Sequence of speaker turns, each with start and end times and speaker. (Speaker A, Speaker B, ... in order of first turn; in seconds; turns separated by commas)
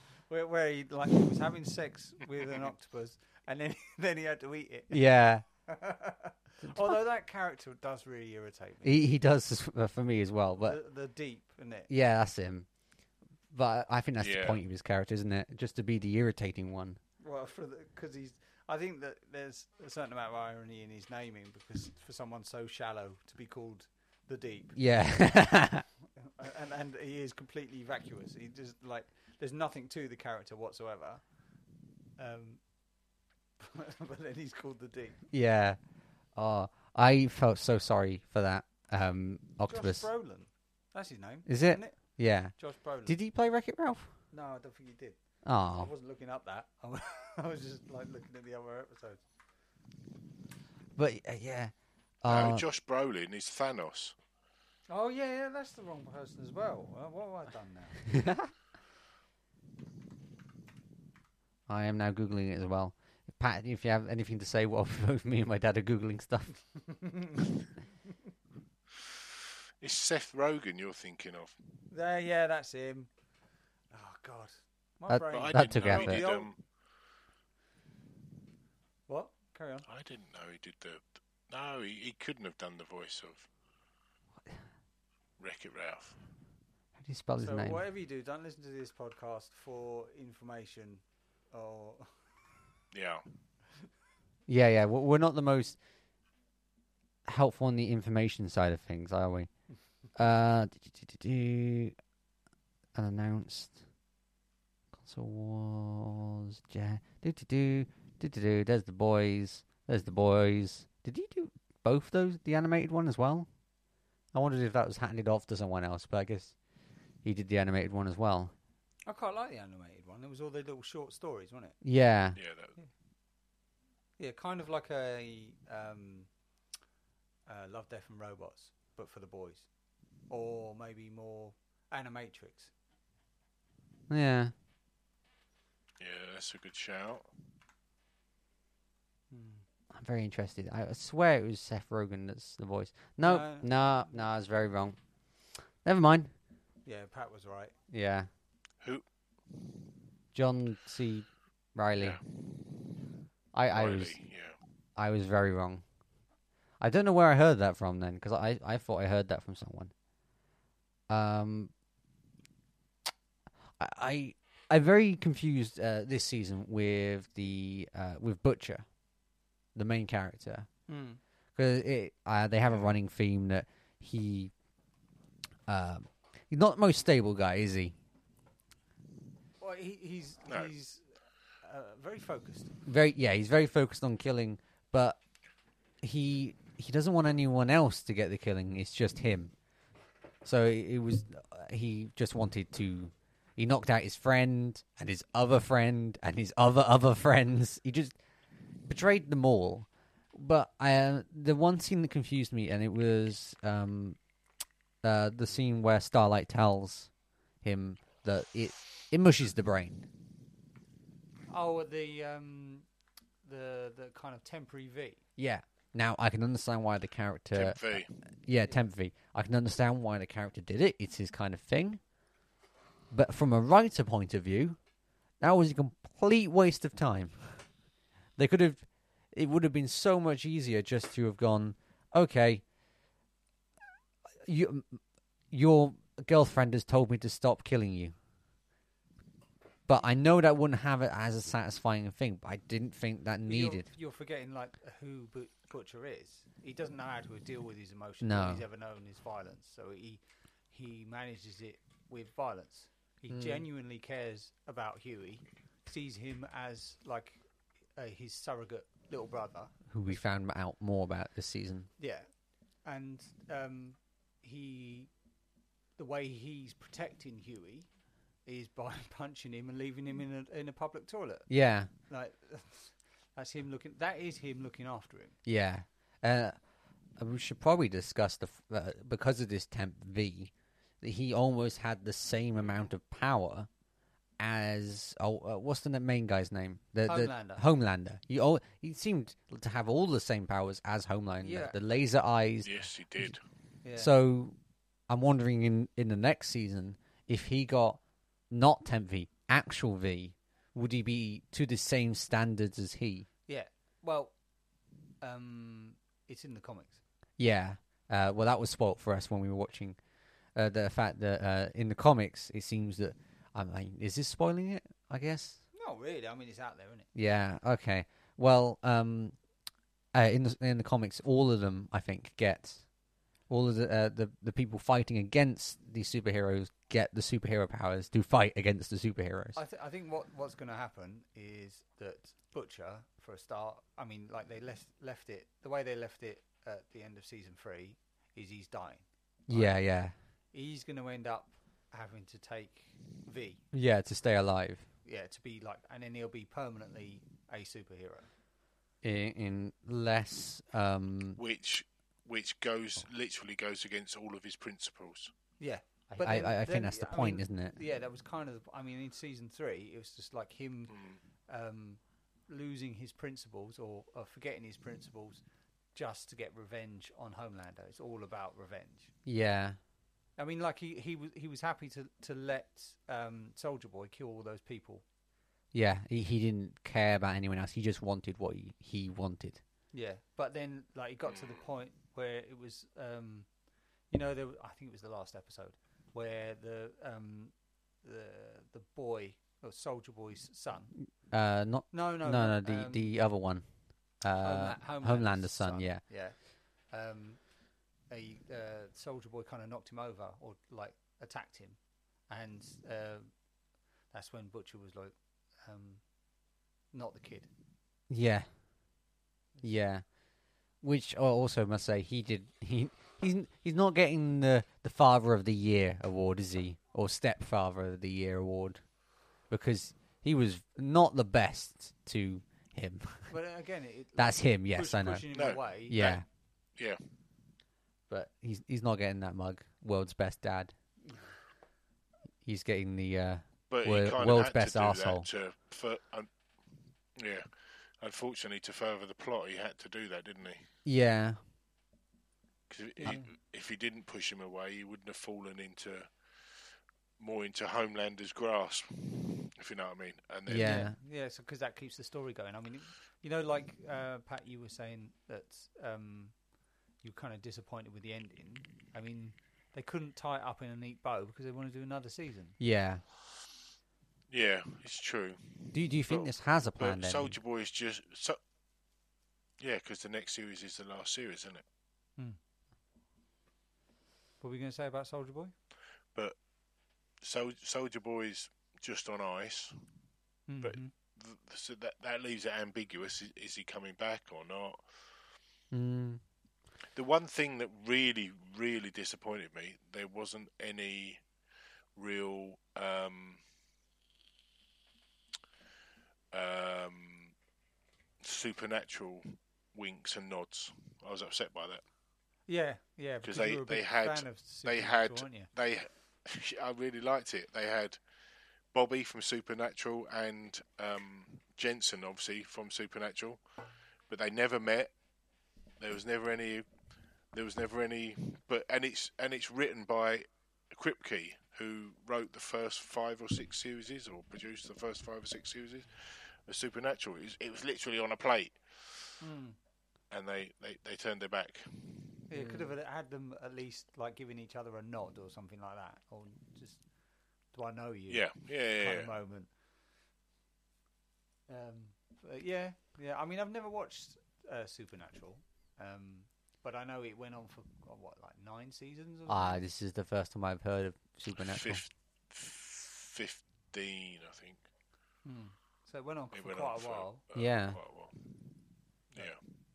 Speaker A: 0.3-5.1, Speaker B: 4.9-5.5, Speaker A: 5.6-9.0, Speaker B: 6.7-7.0, Speaker B: 8.8-10.8, Speaker A: 10.6-11.9, Speaker B: 11.9-12.7, Speaker B: 13.5-17.0, Speaker C: 14.2-14.6, Speaker A: 17.2-24.8, Speaker B: 24.8-25.9, Speaker A: 26.2-31.2, Speaker A: 32.2-32.6, Speaker A: 33.6-35.2, Speaker B: 35.3-35.8, Speaker B: 36.4-40.1, Speaker A: 39.6-42.0, Speaker B: 41.5-44.1, Speaker A: 42.6-43.2, Speaker A: 44.3-49.2, Speaker B: 45.4-45.9, Speaker B: 51.0-52.7, Speaker C: 52.3-54.2, Speaker A: 54.9-58.1, Speaker B: 58.1-58.5, Speaker B: 61.7-66.5, Speaker A: 66.8-67.5, Speaker C: 69.8-71.6, Speaker A: 71.9-73.1, Speaker A: 73.9-76.5, Speaker B: 75.1-76.2, Speaker C: 75.3-76.6, Speaker A: 79.1-79.9, Speaker C: 79.9-83.5, Speaker C: 85.4-86.2, Speaker B: 87.0-87.8, Speaker A: 87.4-92.3, Speaker C: 92.9-93.2, Speaker B: 94.5-95.8, Speaker B: 97.3-99.5, Speaker B: 100.2-102.0, Speaker B: 103.0-103.8, Speaker B: 104.9-113.5, Speaker B: 114.3-116.5, Speaker B: 117.2-118.5, Speaker A: 119.1-121.8, Speaker B: 121.8-122.4, Speaker C: 122.4-122.8, Speaker A: 124.2-126.3, Speaker A: 127.5-129.7, Speaker A: 130.3-132.7, Speaker B: 134.1-134.5, Speaker C: 136.0-137.3, Speaker A: 139.3-139.6, Speaker B: 139.9-145.0, Speaker A: 143.2-144.1, Speaker B: 145.8-146.3, Speaker A: 146.8-147.8, Speaker B: 147.9-148.3, Speaker B: 150.3-152.2, Speaker C: 152.0-152.3, Speaker B: 153.5-154.2, Speaker C: 153.7-154.6, Speaker B: 155.0-155.8, Speaker B: 156.8-159.9, Speaker B: 161.1-161.7, Speaker B: 163.8-168.9, Speaker B: 169.8-170.7, Speaker A: 170.9-171.2, Speaker B: 171.6-174.5, Speaker B: 175.7-178.0, Speaker A: 179.6-181.0, Speaker C: 180.5-180.7, Speaker A: 181.6-182.7, Speaker B: 182.9-185.2, Speaker B: 186.0-189.5, Speaker B: 190.4-198.2, Speaker B: 198.9-204.2, Speaker B: 205.0-207.1, Speaker B: 207.6-210.1, Speaker A: 211.5-212.9, Speaker A: 213.4-215.2, Speaker B: 215.4-217.8, Speaker C: 217.5-218.1, Speaker B: 218.5-222.0, Speaker B: 223.1-224.8, Speaker B: 225.4-227.6, Speaker B: 228.4-232.6, Speaker B: 234.4-235.0, Speaker B: 235.5-238.1, Speaker B: 239.9-243.9, Speaker A: 243.4-257.4, Speaker B: 248.2-248.6, Speaker B: 253.3-253.7, Speaker A: 258.0-259.7, Speaker B: 259.9-261.9, Speaker A: 262.0-262.3, Speaker A: 262.8-265.1, Speaker A: 266.0-267.9, Speaker A: 268.5-271.5, Speaker B: 271.5-271.9, Speaker A: 272.1-275.4, Speaker B: 275.4-276.6, Speaker B: 277.2-283.7, Speaker B: 284.4-293.3, Speaker A: 287.1-287.6, Speaker A: 291.4-291.8, Speaker C: 292.6-293.4, Speaker A: 293.8-294.1, Speaker B: 294.0-294.6, Speaker B: 295.1-303.3, Speaker A: 303.5-304.4, Speaker A: 305.2-307.0, Speaker B: 307.4-310.0, Speaker B: 310.6-315.6, Speaker A: 315.7-317.1, Speaker B: 317.1-319.4, Speaker B: 320.1-322.9, Speaker B: 323.5-329.6, Speaker A: 329.6-339.8, Speaker B: 339.5-340.1, Speaker A: 340.5-343.6, Speaker B: 343.7-344.9, Speaker A: 345.1-348.3, Speaker B: 349.0-351.4, Speaker C: 351.4-355.3, Speaker A: 355.6-360.9, Speaker B: 356.2-357.8, Speaker C: 360.9-361.2, Speaker A: 361.5-365.4, Speaker A: 365.9-369.1, Speaker B: 369.2-369.8, Speaker A: 370.4-375.0, Speaker B: 375.7-379.6, Speaker A: 379.9-383.5, Speaker A: 384.1-390.9, Speaker B: 391.3-393.6, Speaker A: 391.9-393.1, Speaker B: 394.2-396.0, Speaker A: 394.4-397.4, Speaker A: 398.1-403.3, Speaker A: 404.1-406.0, Speaker A: 406.9-407.5, Speaker B: 408.1-408.5, Speaker B: 409.6-410.1, Speaker B: 410.8-418.8, Speaker B: 419.5-423.3, Speaker A: 423.3-426.0, Speaker B: 424.2-425.3, Speaker C: 425.3-426.2, Speaker B: 425.9-426.2, Speaker B: 428.1-430.7, Speaker B: 432.4-435.3, Speaker C: 433.7-440.7, Speaker B: 440.9-441.4, Speaker C: 442.7-446.1, Speaker C: 447.2-450.9, Speaker B: 450.5-450.9, Speaker A: 450.6-456.4, Speaker A: 457.0-462.6, Speaker B: 462.6-463.0, Speaker C: 464.3-468.4, Speaker B: 465.7-467.4, Speaker C: 469.6-471.6, Speaker A: 474.4-475.5, Speaker C: 477.2-479.8, Speaker A: 480.5-480.9, Speaker C: 480.6-485.1, Speaker B: 485.7-486.2, Speaker C: 486.9-491.2, Speaker C: 492.0-493.4, Speaker C: 496.3-497.4, Speaker C: 498.2-501.8, Speaker A: 502.5-505.5, Speaker C: 503.2-508.0, Speaker C: 508.7-513.4, Speaker C: 514.1-514.9, Speaker C: 515.8-516.7, Speaker C: 517.3-529.2, Speaker A: 529.2-529.6, Speaker C: 530.1-532.2, Speaker A: 532.3-536.8, Speaker B: 532.4-532.7, Speaker A: 537.5-539.5, Speaker C: 538.1-539.1, Speaker A: 541.5-549.6, Speaker B: 549.3-551.8, Speaker C: 551.4-554.6, Speaker A: 555.2-557.2, Speaker C: 556.3-558.2, Speaker B: 557.4-557.8, Speaker C: 559.1-559.4